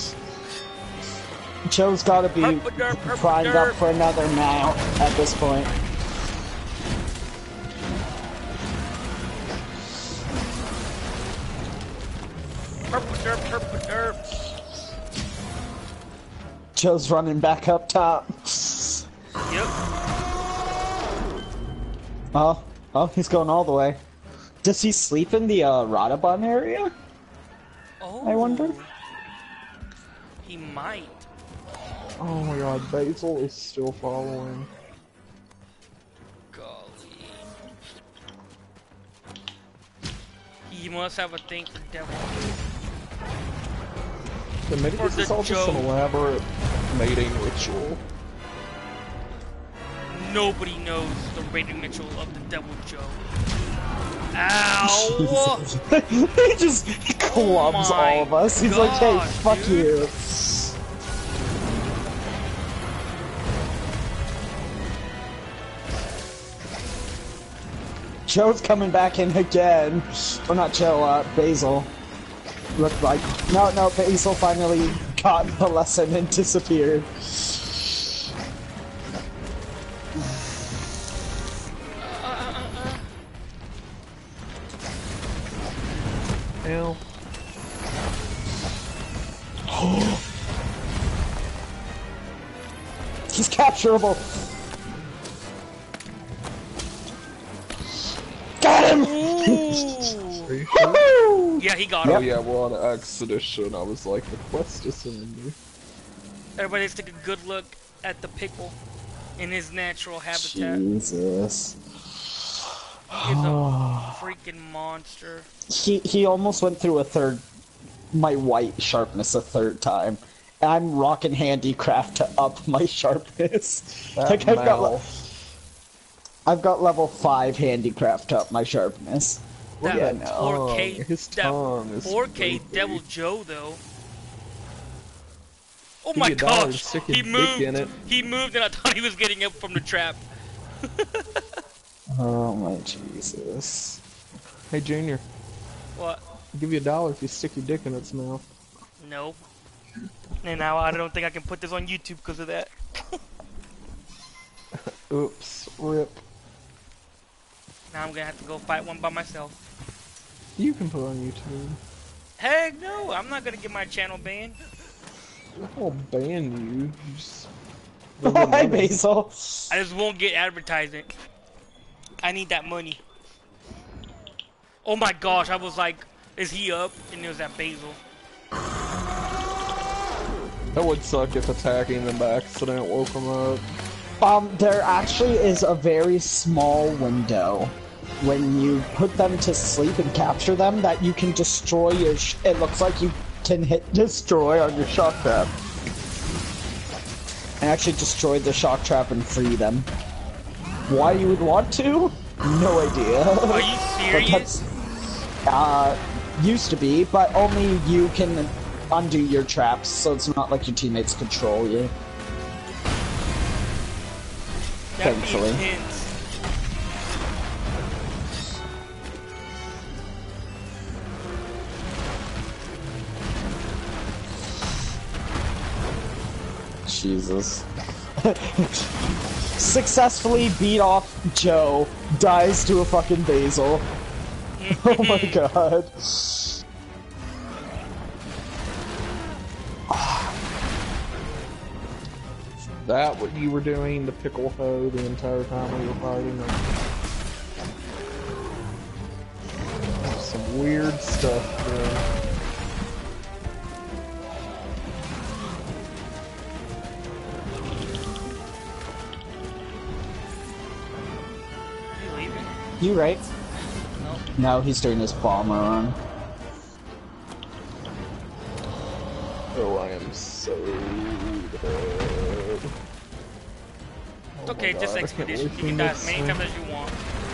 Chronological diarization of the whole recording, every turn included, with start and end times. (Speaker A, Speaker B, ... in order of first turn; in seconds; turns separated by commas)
Speaker A: 1.7-5.7, Speaker B: 2.4-3.8, Speaker B: 12.9-14.2, Speaker A: 16.8-19.0, Speaker B: 19.5-19.7, Speaker A: 22.3-24.0, Speaker A: 24.6-26.9, Speaker B: 28.0-28.9, Speaker A: 28.2-28.8, Speaker B: 30.4-31.3, Speaker C: 32.2-34.7, Speaker B: 36.5-37.5, Speaker B: 40.7-42.6, Speaker C: 44.7-48.0, Speaker B: 45.0-45.9, Speaker B: 50.1-53.2, Speaker B: 54.3-55.7, Speaker A: 54.8-60.6, Speaker B: 57.2-59.9, Speaker A: 68.3-71.9, Speaker A: 72.8-77.6, Speaker B: 82.0-83.0, Speaker C: 86.6-87.0, Speaker A: 89.7-90.2, Speaker A: 93.3-94.4, Speaker A: 98.6-100.1, Speaker B: 98.9-100.5, Speaker C: 100.4-101.0, Speaker A: 100.7-102.2, Speaker B: 101.6-102.2, Speaker C: 102.0-105.6, Speaker B: 106.6-108.8, Speaker B: 109.4-110.8, Speaker A: 110.3-111.8, Speaker A: 113.1-114.2, Speaker B: 113.2-115.5, Speaker A: 115.7-117.5, Speaker A: 118.1-125.0, Speaker C: 124.2-125.2, Speaker A: 126.5-130.5, Speaker C: 129.8-133.0, Speaker B: 129.8-133.8, Speaker B: 136.0-140.2, Speaker C: 136.2-137.9, Speaker B: 140.8-141.6, Speaker A: 142.1-144.0, Speaker C: 144.7-145.2, Speaker B: 146.0-146.2, Speaker C: 146.5-148.5, Speaker B: 149.0-149.4, Speaker B: 150.4-152.7, Speaker C: 154.8-156.2, Speaker B: 157.9-159.6, Speaker C: 160.6-161.8, Speaker B: 162.4-164.6, Speaker C: 165.6-167.5, Speaker C: 168.2-169.0, Speaker A: 168.2-169.7, Speaker B: 169.7-171.2, Speaker B: 172.2-173.0, Speaker B: 174.8-178.0, Speaker C: 180.7-183.7, Speaker A: 184.2-195.6, Speaker A: 197.6-199.9, Speaker A: 200.9-204.7, Speaker B: 203.5-204.5, Speaker A: 205.5-211.9, Speaker B: 214.9-216.1, Speaker A: 215.0-215.7, Speaker A: 226.8-227.7, Speaker A: 228.2-229.0, Speaker A: 229.6-233.9, Speaker B: 234.6-235.4, Speaker A: 234.8-236.6, Speaker A: 239.9-240.3, Speaker C: 242.8-246.8, Speaker C: 250.0-252.1, Speaker B: 261.9-262.5, Speaker A: 262.8-263.2, Speaker B: 264.0-264.3, Speaker A: 264.4-266.0, Speaker C: 269.5-272.7, Speaker C: 274.4-276.4, Speaker B: 274.5-277.0